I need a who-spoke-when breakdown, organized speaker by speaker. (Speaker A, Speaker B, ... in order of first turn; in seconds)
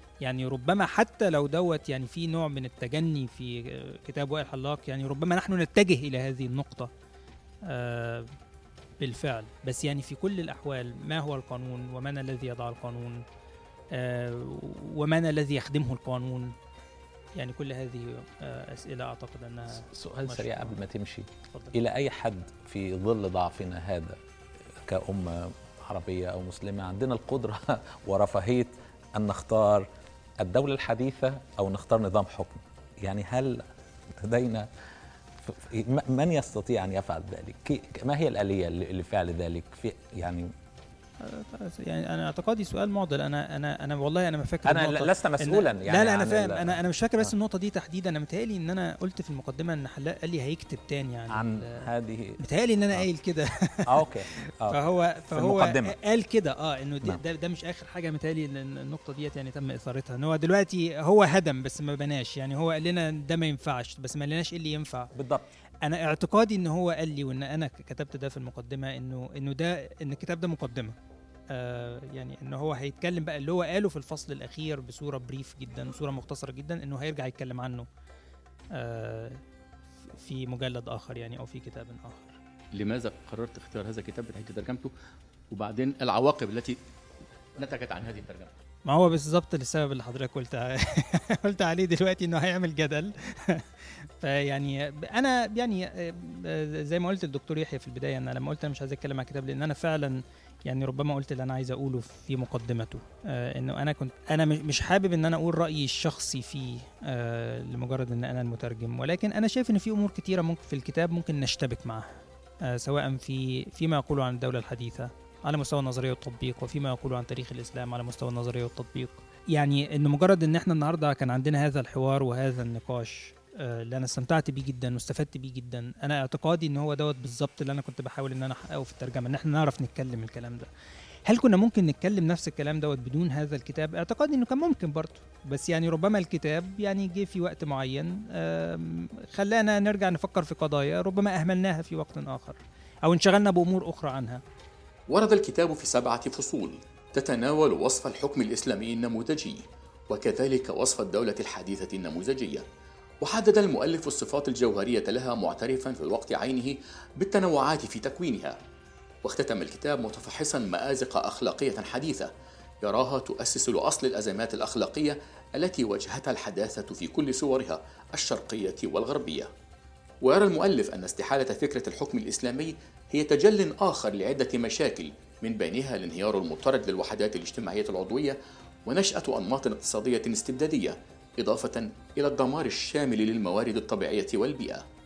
Speaker A: 0.2-6.9, 7.7-8.3, 9.0-13.2, 13.9-16.5, 17.4-20.8, 21.5-21.8, 41.2-51.8, 52.4-65.1, 65.8-71.0, 71.5-77.9, 78.8-79.4, 80.1-82.4, 88.8-112.1, 112.7-130.7, 131.3-144.4
Speaker B: 19.8-24.2, 24.9-29.9, 30.4-33.6, 34.2-34.7, 35.4-40.5, 44.6-47.3, 51.3-52.4, 53.9-54.8, 55.3-55.9, 65.1-65.5
Speaker C: 82.7-84.9, 85.5-86.8, 87.6-88.5, 145.1-152.6, 153.2-158.6, 159.2-162.3, 162.8-169.5, 170.2-184.8